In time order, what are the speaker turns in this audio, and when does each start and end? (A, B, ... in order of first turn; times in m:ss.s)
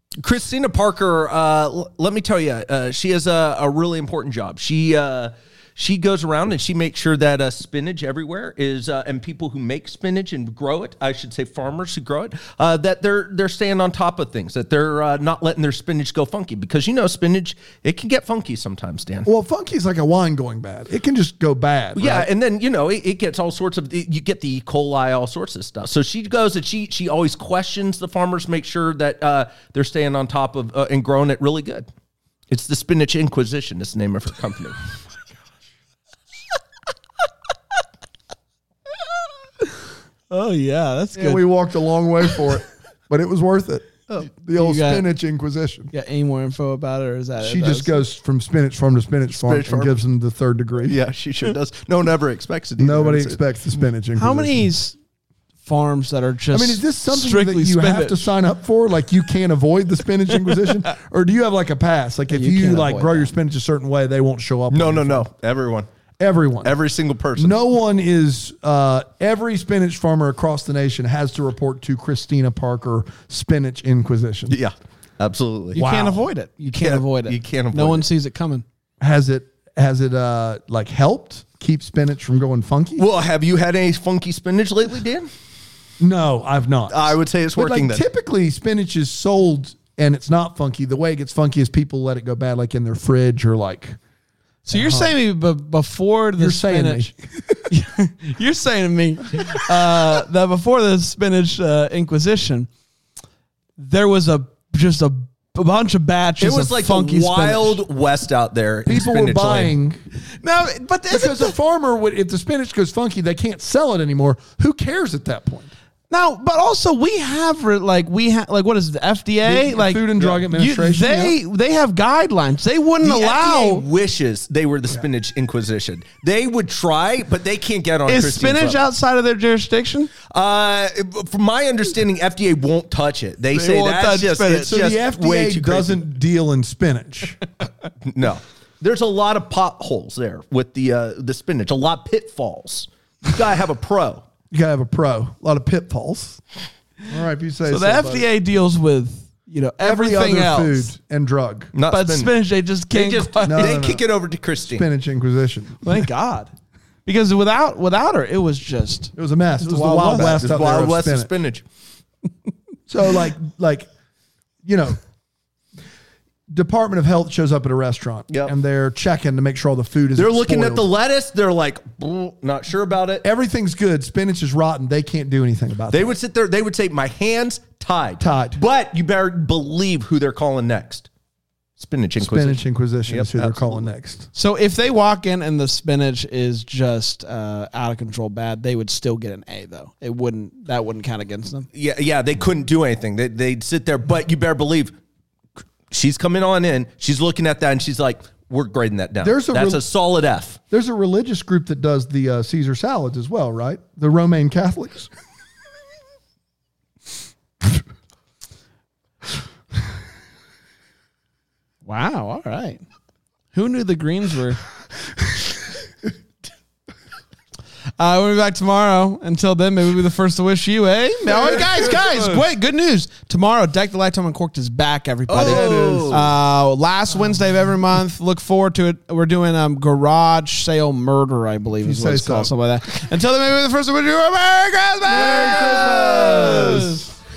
0:00.2-0:19.3 A
0:19.2-0:22.3 B
0:22.0-0:31.9 A
0:32.5-0:34.8 A
0:40.3-0:41.4 C
0:41.2-0:45.9 B
0:44.6-0:45.1 C
0:45.9-0:48.0 C
0:47.4-0:51.0 B
0:49.3-0:50.0 A
0:50.8-0:53.4 A
0:52.8-0:54.7 B
0:54.2-0:55.0 C
0:55.6-0:58.3 C
0:56.5-1:05.3 B
1:00.5-1:00.7 C
1:02.3-1:03.3 C
1:04.7-1:05.9 A
1:06.2-1:06.7 B
1:06.6-1:07.6 A
1:07.4-1:14.6 B
1:14.5-1:15.8 A
1:15.8-1:16.3 B
1:15.8-1:18.6 C
1:16.7-1:18.1 A
1:19.0-1:23.0 B
1:23.0-1:25.3 A
1:26.0-1:34.0 B
1:26.9-1:28.0 A
1:34.6-1:37.1 C
1:34.7-1:35.2 B
1:36.4-1:37.6 B
1:37.7-1:42.7 C
1:43.8-1:47.8 C
1:46.4-1:49.8 A
1:48.9-1:50.0 B
1:50.4-1:51.5 C
1:51.1-1:55.7 B
1:56.1-2:03.8 C
1:59.4-2:01.4 B
2:03.0-2:08.8 A
2:08.1-2:10.1 C
2:10.3-2:16.0 A
2:13.5-2:14.8 C
2:14.7-2:17.4 B
2:18.0-2:24.2 A
2:24.5-2:26.4 B
2:27.1-2:28.3 B
2:27.7-2:30.9 C
2:29.8-2:31.7 B
2:31.7-2:32.3 A
2:31.9-2:33.8 C
2:32.9-2:34.8 A
2:33.5-2:34.0 B
2:34.7-2:36.0 B
2:35.8-2:36.5 C
2:37.1-2:40.4 C
2:39.2-2:41.3 B
2:40.2-2:41.6 A
2:42.9-2:43.9 B
2:44.6-2:45.0 B
2:46.5-2:50.9 B
2:50.2-2:53.2 A
2:53.2-2:56.2 B
2:55.9-3:01.1 A
2:58.2-2:58.6 B
3:01.8-3:03.9 A
3:02.2-3:04.3 B
3:04.3-3:11.7 C
3:11.7-3:14.9 A
3:15.9-3:20.6 A
3:19.2-3:19.8 B
3:20.7-3:25.1 B
3:31.9-3:32.8 C
3:33.5-3:34.6 C
3:38.0-3:57.0 C
3:41.4-3:42.4 B
3:45.3-3:46.2 A
3:45.4-3:46.3 B
3:51.8-3:52.5 B
3:55.1-3:57.1 B